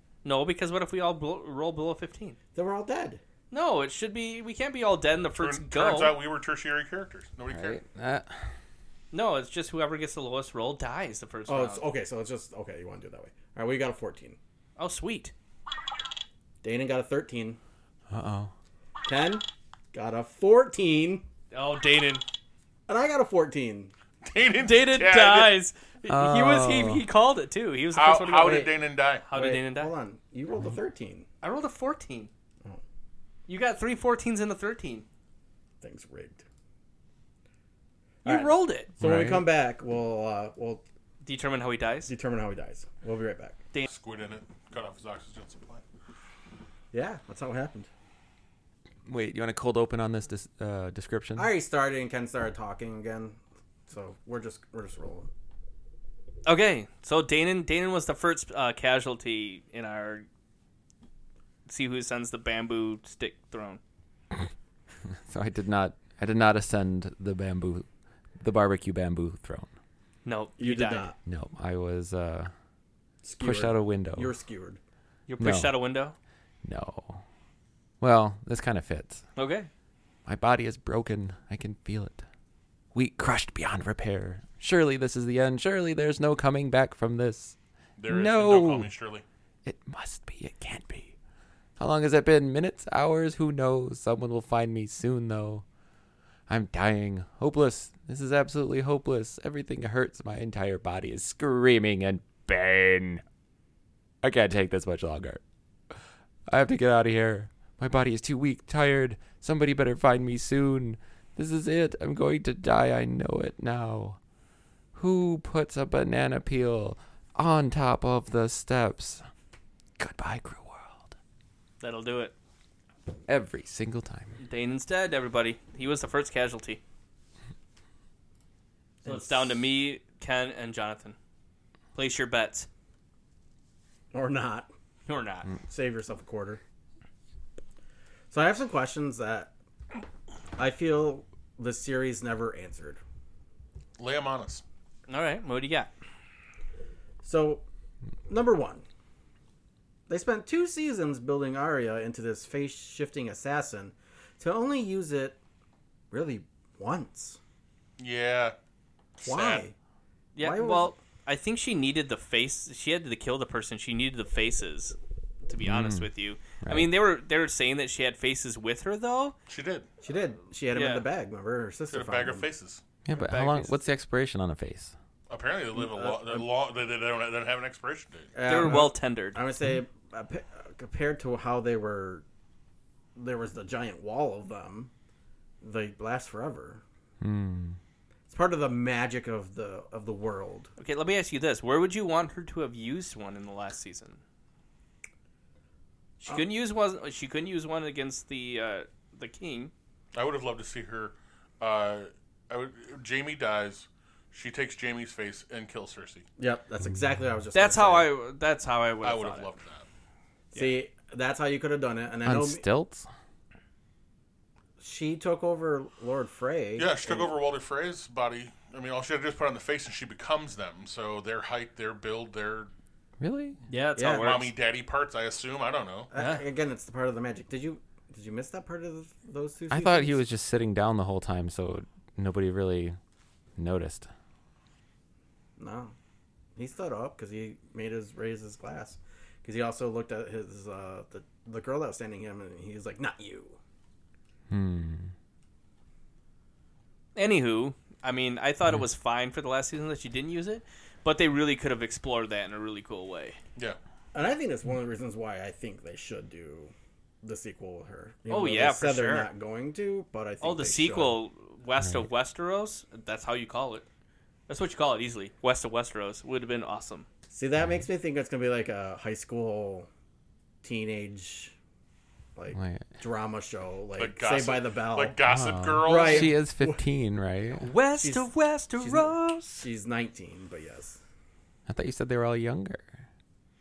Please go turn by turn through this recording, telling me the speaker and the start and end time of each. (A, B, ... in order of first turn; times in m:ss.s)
0:00.2-0:02.4 A
0:02.5-0:03.2 B
0:03.5-0:06.2 A
0:05.4-0:07.8 C
0:07.5-0:08.4 D
0:09.1-0:11.8 A
0:11.5-0:14.4 B
0:14.8-0:15.3 A
0:16.6-0:17.6 B
0:18.1-0:18.5 D
0:19.0-0:21.2 B
0:21.5-0:22.2 A
0:22.9-0:23.9 B
0:24.2-0:25.6 C
0:24.6-0:28.7 A
0:26.1-0:27.0 D
0:27.9-0:29.2 C
0:28.4-0:28.7 B
0:29.2-0:29.9 A
0:29.3-0:31.3 B
0:31.4-0:32.3 A
0:33.5-0:35.0 A
0:35.8-0:36.4 B
0:38.2-0:40.8 B
0:38.2-0:38.9 A
0:39.0-0:39.5 D
0:41.2-0:42.1 A
0:42.0-0:43.6 B
0:43.9-0:45.8 C
0:46.9-0:47.9 B
0:49.0-0:51.5 D
0:51.4-0:55.3 B
0:56.4-1:00.2 A
1:01.6-1:03.8 A
1:05.2-1:07.8 D
1:08.4-1:09.7 D
1:10.2-1:11.1 A
1:10.6-1:11.2 B
1:11.2-1:12.5 D
1:13.2-1:14.8 B
1:13.4-1:14.3 D
1:15.3-1:16.2 A
1:15.4-1:15.7 D
1:16.6-1:17.2 D
1:18.0-1:19.2 D
1:19.4-1:19.7 A
1:20.2-1:22.2 D
1:22.9-1:27.6 D
1:28.0-1:29.2 C
1:28.1-1:28.9 D
1:29.6-1:31.1 D
1:31.8-1:35.6 D
1:36.5-1:43.2 D
1:44.2-1:45.4 D
1:46.5-1:54.2 D
1:54.9-1:59.3 D
2:00.0-2:01.1 D
2:01.8-2:02.3 A
2:03.3-2:04.4 D
2:04.4-2:06.8 A
2:09.0-2:09.6 B
2:09.0-2:11.2 A
2:11.9-2:12.7 A
2:14.1-2:14.7 B
2:15.1-2:15.5 A
2:15.7-2:16.6 B
2:18.3-2:19.5 B
2:20.6-2:23.0 B
2:24.0-2:24.6 C
2:25.1-2:25.9 A
2:27.2-2:27.6 B
2:28.3-2:28.8 B
2:30.1-2:35.4 B
2:36.1-2:37.4 B
2:38.0-2:38.5 C
2:39.2-2:39.6 C
2:39.2-2:39.7 B
2:40.3-2:49.3 A
2:40.4-2:41.0 B
2:45.6-2:46.1 D
2:46.6-2:46.9 D
2:49.5-2:49.9 C
2:50.0-2:52.5 B
2:50.7-2:51.1 A
2:51.9-2:52.8 C
2:53.0-2:54.9 D
2:53.1-2:53.8 A
2:55.3-2:58.7 C
2:55.7-2:56.5 B
2:58.3-3:02.2 B
2:58.4-2:59.4 A
3:03.2-3:04.9 B
3:05.6-3:06.8 B
3:07.2-3:07.8 D
3:08.3-3:10.7 B
3:10.8-3:14.2 A
3:16.2-3:19.7 A
3:20.1-3:26.2 C
3:26.4-3:28.1 B
3:27.5-3:29.5 A
3:29.0-3:29.8 C
3:30.5-3:32.6 B
3:32.2-3:33.1 D
3:34.8-3:37.3 B
3:36.8-3:42.7 C
3:43.2-3:43.6 D
3:43.7-3:44.5 A
3:44.0-3:44.4 B
3:44.1-3:46.1 C
3:46.1-3:50.2 B
3:46.1-3:46.4 A
3:49.7-3:53.0 D
3:53.6-3:54.1 D
3:55.6-3:55.9 B
3:56.6-4:03.6 B
4:04.5-4:05.1 D
4:07.1-4:13.4 A
4:14.1-4:21.2 B
4:18.3-4:19.3 A
4:20.4-4:23.8 A
4:24.5-4:27.0 A
4:27.3-4:29.9 B
4:30.6-4:31.5 B
4:32.4-4:35.2 B
4:32.5-4:32.9 D
4:34.0-4:36.3 C
4:35.2-4:37.7 D
4:35.8-4:36.8 B
4:37.6-4:39.6 A
4:38.0-4:41.0 B
4:41.7-4:42.9 D